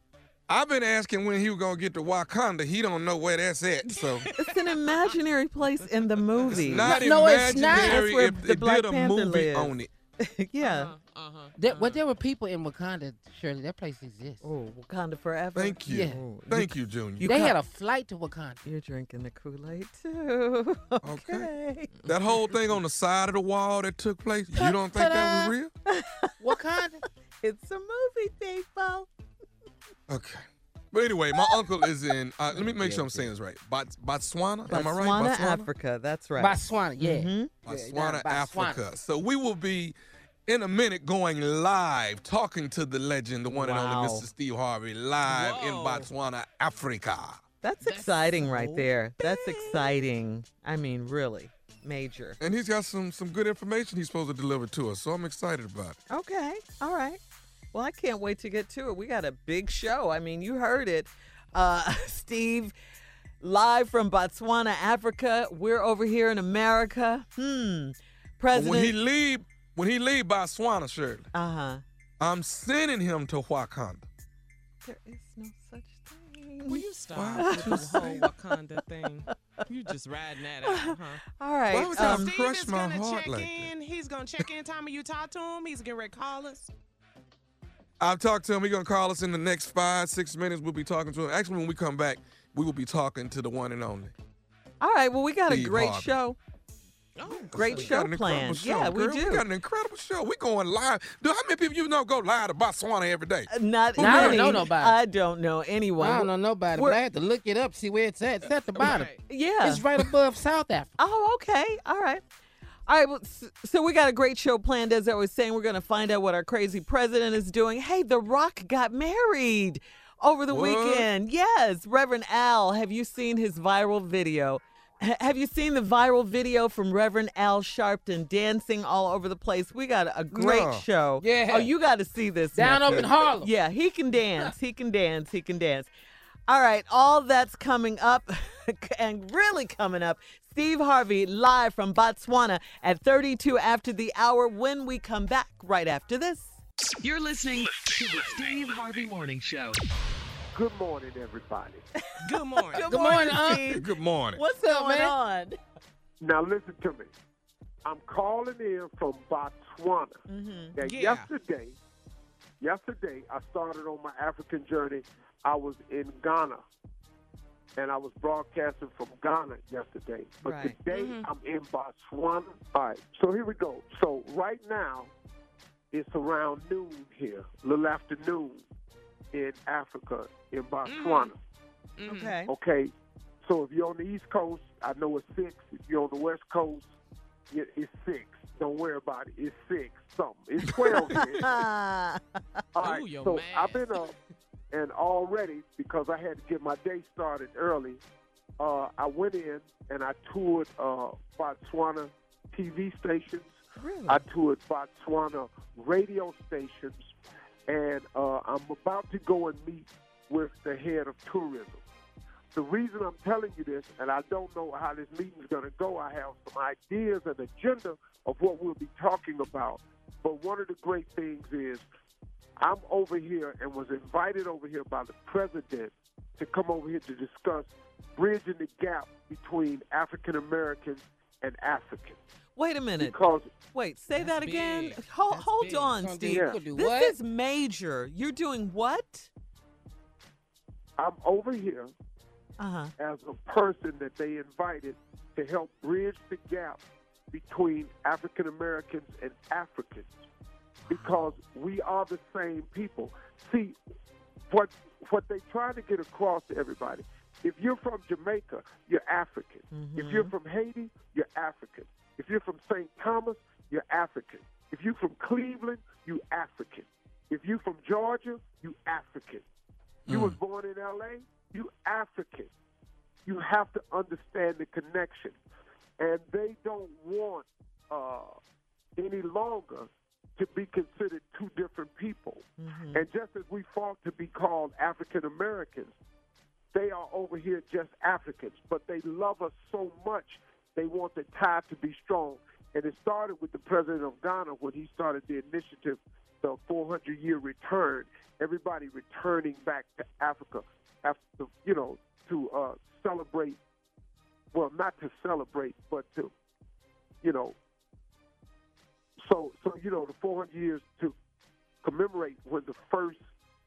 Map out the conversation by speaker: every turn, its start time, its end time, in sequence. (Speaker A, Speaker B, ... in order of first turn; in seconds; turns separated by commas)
Speaker A: 0.5-4.3, Speaker B: 3.9-5.0, Speaker C: 4.4-6.9, Speaker B: 6.4-6.8, Speaker A: 6.5-9.9, Speaker D: 6.8-8.3, Speaker C: 7.7-10.9, Speaker B: 10.6-12.0, Speaker D: 11.6-14.4, Speaker C: 14.4-16.7, Speaker A: 15.5-17.6, Speaker D: 15.9-16.2, Speaker D: 17.2-18.6, Speaker C: 18.6-22.0, Speaker A: 21.0-21.5, Speaker A: 22.0-25.7, Speaker D: 24.5-25.5, Speaker C: 25.9-26.5, Speaker D: 26.4-27.0, Speaker C: 27.4-29.1, Speaker A: 30.1-35.7, Speaker C: 31.4-31.7, Speaker D: 32.5-33.3, Speaker C: 34.7-37.5, Speaker D: 36.4-38.8, Speaker A: 37.6-39.9, Speaker A: 40.5-47.4, Speaker C: 43.5-44.3, Speaker B: 45.2-46.1, Speaker C: 47.6-52.4, Speaker B: 47.8-49.8, Speaker A: 52.4-56.0, Speaker C: 56.1-57.2, Speaker C: 57.7-62.7, Speaker C: 63.4-69.0, Speaker A: 68.5-71.3, Speaker C: 71.3-71.8, Speaker A: 72.2-74.0, Speaker C: 74.8-76.8, Speaker B: 76.7-81.2, Speaker A: 77.1-78.3, Speaker C: 77.4-78.3, Speaker C: 80.7-82.3, Speaker A: 81.7-83.7, Speaker B: 81.9-86.7, Speaker A: 88.0-94.1, Speaker C: 94.8-96.4, Speaker A: 95.5-96.1, Speaker B: 97.2-97.9, Speaker A: 97.3-103.5, Speaker C: 97.5-99.5, Speaker C: 103.5-107.0, Speaker D: 104.0-105.0, Speaker A: 104.0-104.6, Speaker D: 106.0-110.9, Speaker B: 108.8-109.2, Speaker C: 109.3-109.8, Speaker C: 111.0-112.2, Speaker C: 112.9-135.9, Speaker A: 120.5-121.1, Speaker A: 130.3-130.8, Speaker D: 131.2-131.7, Speaker D: 132.5-133.5, Speaker A: 132.8-133.2, Speaker C: 136.5-146.6, Speaker E: 147.0-149.8, Speaker F: 150.5-151.8, Speaker B: 152.2-153.2, Speaker C: 152.7-155.6, Speaker D: 152.8-153.8, Speaker A: 153.5-154.4, Speaker D: 154.6-155.1, Speaker F: 156.2-157.1, Speaker F: 157.8-160.2, Speaker C: 160.3-160.8, Speaker F: 160.8-161.8, Speaker B: 160.8-161.3, Speaker F: 162.6-166.6, Speaker F: 167.8-175.1, Speaker C: 170.4-170.8, Speaker B: 170.9-171.3, Speaker F: 175.9-178.6, Speaker F: 179.3-181.4, Speaker B: 180.8-181.3, Speaker B: 182.0-182.3, Speaker C: 182.1-182.5, Speaker F: 182.5-182.9, Speaker F: 183.4-186.9, Speaker F: 187.5-191.6, Speaker A: 190.8-191.2, Speaker C: 191.2-192.4, Speaker F: 192.8-194.1, Speaker B: 192.8-194.1, Speaker F: 194.7-198.0, Speaker F: 198.6-203.6, Speaker C: 203.8-204.2, Speaker F: 204.1-207.1, Speaker F: 207.7-211.8, Speaker F: 212.5-221.8, Speaker F: 222.6-232.2, Speaker C: 232.6-239.3, Speaker F: 233.0-233.5, Speaker B: 234.2-235.9, Speaker D: 236.0-237.2, Speaker F: 236.3-236.6, Speaker F: 241.0-241.9, Speaker C: 242.6-242.9, Speaker F: 243.0-250.1, Speaker C: 250.8-251.2, Speaker F: 250.9-253.8, Speaker F: 254.5-269.4, Speaker C: 259.7-260.3, Speaker A: 270.1-270.4, Speaker F: 270.1-272.5, Speaker F: 273.2-275.4, Speaker F: 276.0-278.4, Speaker F: 279.0-285.9, Speaker C: 282.6-283.1, Speaker F: 286.7-303.6, Speaker F: 304.5-306.3, Speaker F: 307.2-307.6, Speaker F: 309.2-311.1, Speaker F: 311.8-313.2